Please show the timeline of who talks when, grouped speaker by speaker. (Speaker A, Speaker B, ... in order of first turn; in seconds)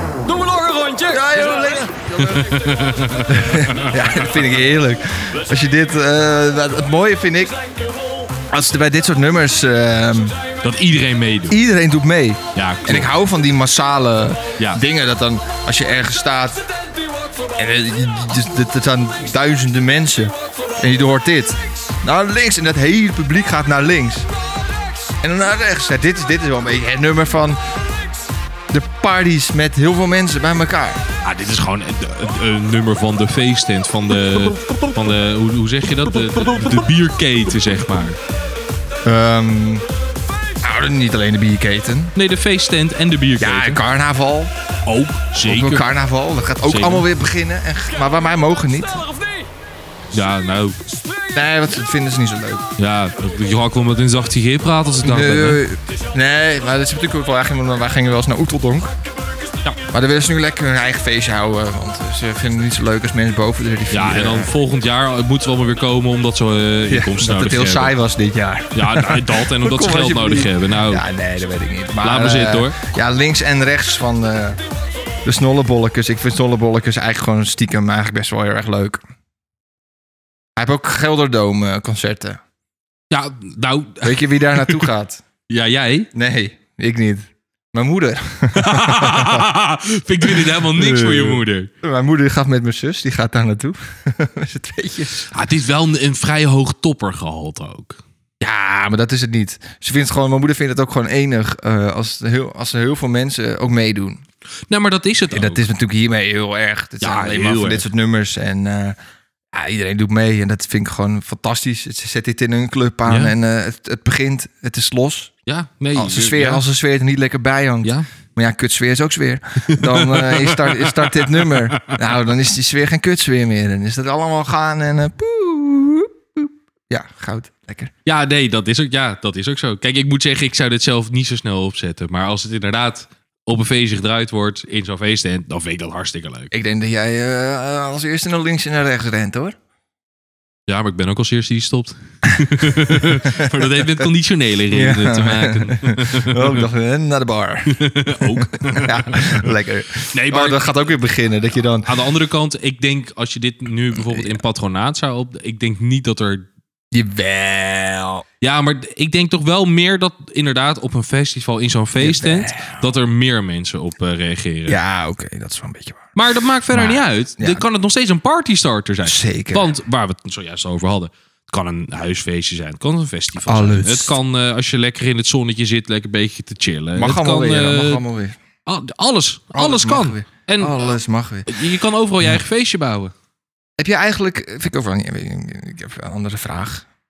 Speaker A: 0.2-2.9, 7.6-8.3, 16.9-17.5, 24.7-25.1, 48.9-49.5, 50.9-51.3
Speaker B: 1.1-2.4, 3.3-7.6, 8.5-10.4, 11.5-16.7, 17.6-24.3, 25.2-27.6, 28.7-31.0, 39.0-39.9, 40.6-42.1, 43.4-44.5, 45.4-49.1, 51.3-52.7, 55.0-59.0, 59.9-64.5, 66.9-74.6, 75.2-79.0, 80.6-82.4, 84.0-85.2, 86.1-89.5, 90.2-95.3, 98.4-104.2, 105.3-109.0, 109.5-115.3, 115.9-127.9, 136.5-139.6, 142.8-143.7, 144.7-151.9, 153.9-154.4, 156.9-158.2, 162.0-162.9, 164.7-166.1, 166.7-167.6, 169.0-169.8, 173.4-174.2, 177.0-178.4, 179.5-181.6, 183.8-186.9
Speaker C: 2.2-3.9, 10.6-11.6, 12.6-13.1, 31.2-38.2, 42.1-43.8, 44.9-45.9, 46.6-47.1, 50.1-50.8, 52.8-55.6, 63.9-68.0, 68.7-71.0, 72.0-72.8, 83.1-84.9, 85.5-86.1, 88.5-91.7, 95.3-98.0, 104.7-105.7, 107.0-107.9, 113.1-113.3, 115.5-116.6, 119.7-122.0, 128.1-136.5, 140.7-146.7, 147.7-149.5, 150.1-150.7, 151.8-156.5, 158.4-164.8, 166.2-178.0, 178.7-180.8, 181.5-183.1